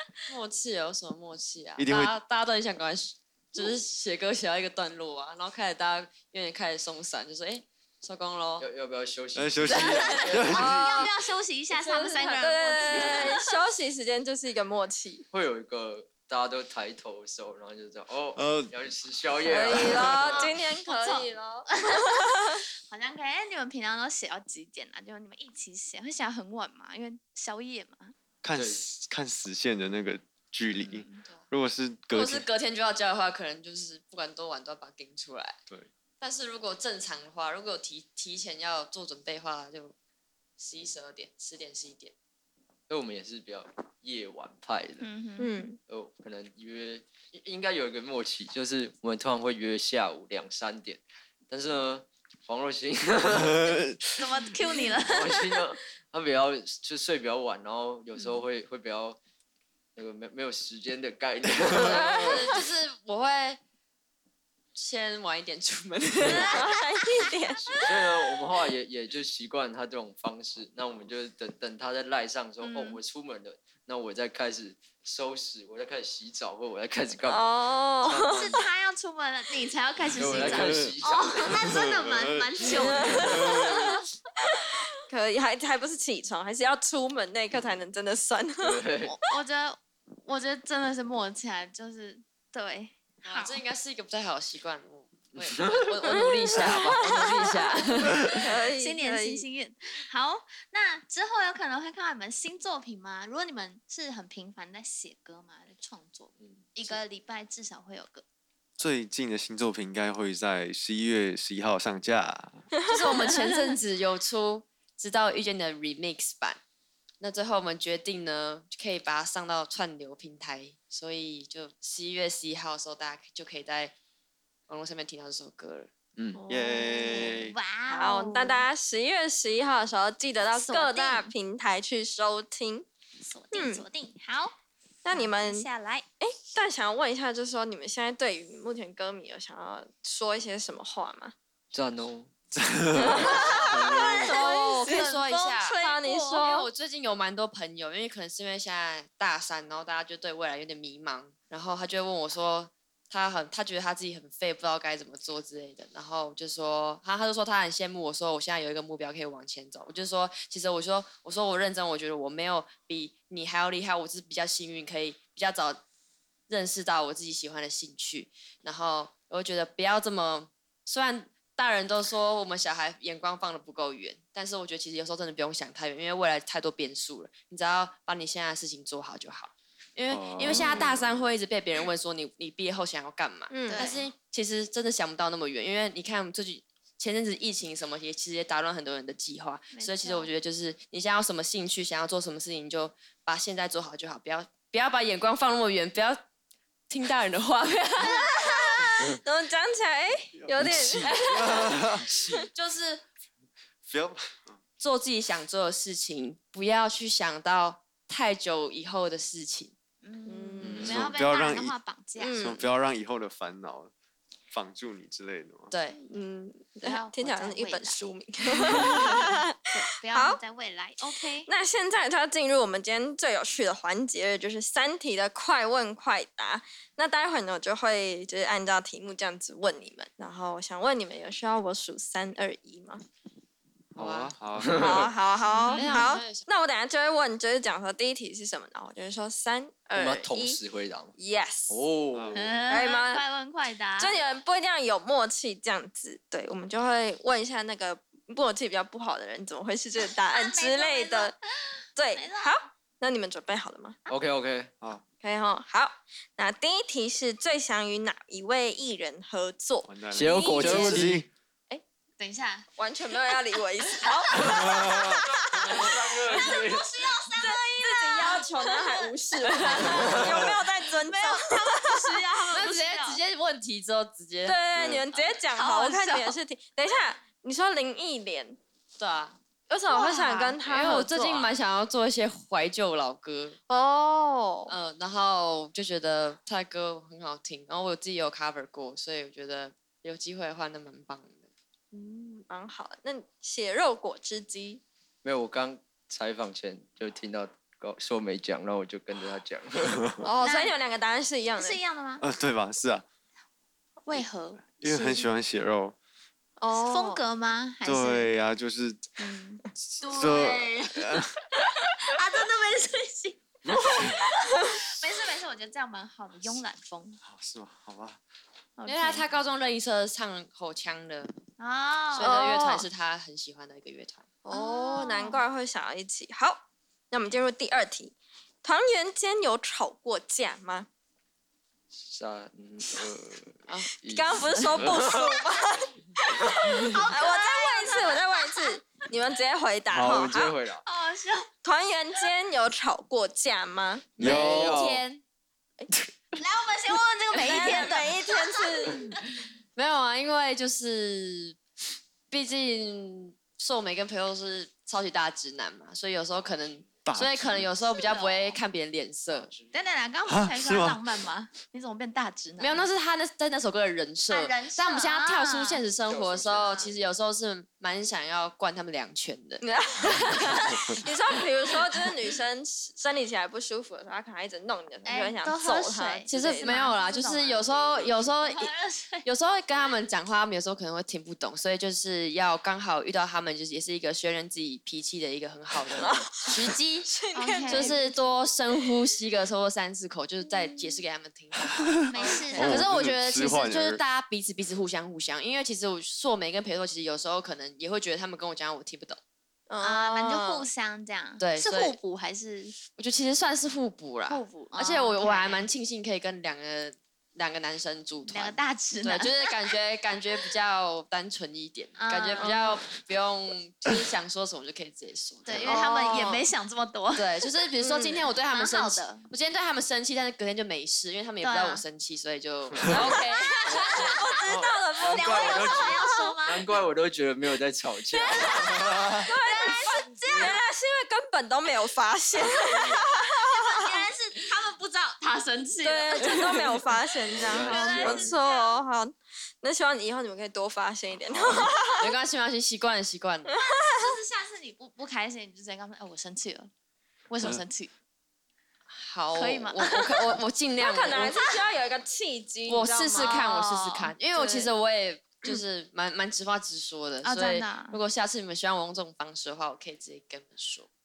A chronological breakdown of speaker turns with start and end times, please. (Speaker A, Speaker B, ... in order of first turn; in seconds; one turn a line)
Speaker A: 0.3-8.7
Speaker B: 1.8-2.1
Speaker C: 8.6-10.5
Speaker B: 9.3-11.1
Speaker D: 9.7-13.6
Speaker E: 10.5-11.1
Speaker E: 11.8-15.2
Speaker C: 15.3-20.5
Speaker B: 18.4-18.7
Speaker E: 19.5-22.6
Speaker B: 19.7-20.4
Speaker D: 20.3-28.1
Speaker B: 28.4-32.5
Speaker C: 28.6-28.9
Speaker A: 32.1-35.6
Speaker A: 36.2-39.9
Speaker A: 40.6-42.1
Speaker C: 42.9-45.1
Speaker D: 45.0-45.6
Speaker E: 45.4-45.8
Speaker C: 45.9-53.8
Speaker B: 53.3-54.0
Speaker D: 54.2-55.7
Speaker C: 55.0-59.2
Speaker C: 60.0-62.4
Speaker B: 61.5-62.1
Speaker A: 61.9-63.6
Speaker A: 64.8-66.7
Speaker E: 66.3-67.7
Speaker C: 67.6-77.5
Speaker D: 72.6-73.0
Speaker E: 77.2-78.6
Speaker C: 78.0-78.6
Speaker D: 78.0-84.0
Speaker C: 80.0-81.9
Speaker B: 80.3-82.7
Speaker C: 82.6-83.4
Speaker E: 82.8-88.8
Speaker B: 83.2-83.9
Speaker C: 88.6-89.2
Speaker D: 89.1-93.6
Speaker A: 93.2-98.4
Speaker E: 96.0-97.5
Speaker E: 98.3-99.5
Speaker D: 98.8-108.2
Speaker C: 106.4-106.7
Speaker B: 108.8-112.7
Speaker A: 112.9-116.6
Speaker A: 117.2-123.9
Speaker A: 124.7-125.9
Speaker E: 126.3-127.3
Speaker B: 126.5-127.5
Speaker D: 127.1-128.6
Speaker E: 127.9-132.9
Speaker D: 130.4-131.3
Speaker D: 133.2-134.6
Speaker E: 133.5-133.8
Speaker E: 135.0-135.7
Speaker D: 135.1-136.1
Speaker E: 136.2-141.3
Speaker C: 141.7-142.3
Speaker B: 142.5-144.1
Speaker E: 143.0-146.7
Speaker C: 143.0-144.3
Speaker D: 143.8-146.4
Speaker A: 144.2-165.8
Speaker A: 166.5-196.2
Speaker B: 180.1-181.0
Speaker E: 183.5-183.9
Speaker D: 183.7-184.0
Speaker D: 189.7-190.3
Speaker A: 196.9-198.6
Speaker E: 198.3-201.2
Speaker B: 200.4-202.5
Speaker A: 201.0-201.8
Speaker A: 202.5-203.1
Speaker B: 203.8-204.6
Speaker A: 204.8-209.7
Speaker D: 210.0-212.5
Speaker E: 210.3-210.9
Speaker C: 210.6-211.1
Speaker B: 210.8-211.8
Speaker E: 212.2-212.7
Speaker B: 212.3-213.9
Speaker B: 214.5-215.7
Speaker A: 215.7-216.0
Speaker E: 216.0-220.4
Speaker D: 216.8-221.5
Speaker E: 221.2-233.0
Speaker B: 233.9-234.9
Speaker A: 234.0-234.3
Speaker C: 234.6-235.1
Speaker E: 234.7-240.6
Speaker D: 235.5-236.1
Speaker A: 235.7-236.5
Speaker C: 239.9-241.1
Speaker E: 241.2-241.8
Speaker C: 241.7-242.5
Speaker B: 242.1-242.4
Speaker D: 242.3-244.2
Speaker E: 242.7-243.2
Speaker E: 244.0-251.3
Speaker D: 250.1-252.6
Speaker E: 252.0-254.0
Speaker C: 254.1-254.7
Speaker E: 255.2-260.0
Speaker B: 259.9-261.3
Speaker C: 260.1-261.3
Speaker D: 260.2-261.1
Speaker D: 262.2-273.2
Speaker E: 262.8-266.7
Speaker B: 264.6-265.2
Speaker C: 265.4-266.9
Speaker E: 267.4-272.3
Speaker A: 269.4-269.9
Speaker A: 272.5-274.6
Speaker E: 274.4-278.6
Speaker D: 275.1-276.4
Speaker A: 279.0-279.4
Speaker E: 279.7-281.5
Speaker D: 279.9-280.5
Speaker A: 280.1-283.6
Speaker E: 283.7-284.7
Speaker A: 284.7-291.4
Speaker E: 291.9-294.8
Speaker C: 295.2-300.1
Speaker E: 300.2-301.8
Speaker D: 300.4-300.7
Speaker D: 301.6-302.2
Speaker B: 302.2-303.1
Speaker D: 304.0-305.3
Speaker B: 304.8-306.0
Speaker E: 306.6-307.2
Speaker D: 306.7-308.3
Speaker B: 307.8-309.0
Speaker D: 309.2-317.2
Speaker B: 309.8-311.3
Speaker C: 313.7-314.1
Speaker B: 317.2-318.2
Speaker D: 318.8-319.3
Speaker A: 318.9-321.3
Speaker D: 321.6-322.7
Speaker A: 322.2-324.2
Speaker E: 322.2-322.9
Speaker E: 324.4-330.9
Speaker D: 324.5-325.4
Speaker C: 331.9-335.3
Speaker E: 334.0-340.6
Speaker C: 336.5-336.8
Speaker D: 336.6-339.1
Speaker B: 339.9-340.3
Speaker C: 340.0-340.8
Speaker D: 340.9-341.5
Speaker E: 341.6-344.1
Speaker C: 344.2-345.0
Speaker B: 344.2-345.0
Speaker A: 344.3-345.2
Speaker D: 346.4-349.2
Speaker A: 347.3-347.8
Speaker E: 347.3-349.0
Speaker A: 349.8-351.6
Speaker A: 352.3-359.5
Speaker B: 357.1-357.7
Speaker D: 357.9-358.6
Speaker C: 359.3-359.7
Speaker D: 359.7-362.9
Speaker B: 360.3-361.0
Speaker A: 362.6-369.6
Speaker D: 364.3-365.8
Speaker C: 366.1-367.0
Speaker E: 369.6-376.9
Speaker D: 375.1-379.3
Speaker A: 376.3-378.7
Speaker A: 379.2-387.1
Speaker E: 386.0-388.0
Speaker D: 387.4-388.0
Speaker A: 387.7-391.9
Speaker B: 391.6-394.0
Speaker D: 392.1-392.8
Speaker E: 392.2-392.8
Speaker A: 392.6-399.2
Speaker E: 399.7-400.7
Speaker D: 399.8-402.8
Speaker A: 401.4-402.0
Speaker A: 403.0-416.4
Speaker D: 404.3-405.7
Speaker D: 408.3-409.7
Speaker D: 412.0-412.6
Speaker E: 412.4-412.6
Speaker D: 415.5-417.4
Speaker E: 415.6-416.5
Speaker A: 417.1-424.2
Speaker E: 417.8-418.3
Speaker D: 418.4-419.3
Speaker D: 421.4-421.8
Speaker D: 422.9-426.7
Speaker E: 423.8-426.4
Speaker C: 424.5-428.8
Speaker D: 428.1-430.6
Speaker E: 428.4-434.0
Speaker D: 432.6-438.8
Speaker E: 435.8-442.1
Speaker C: 437.3-438.4
Speaker A: 442.0-443.5
Speaker E: 443.5-444.2
Speaker D: 443.6-446.7
Speaker D: 447.3-447.9
Speaker A: 448.9-451.4
Speaker D: 449.3-449.9
Speaker E: 450.8-454.7
Speaker A: 452.7-460.9
Speaker D: 453.2-453.9
Speaker D: 457.2-458.0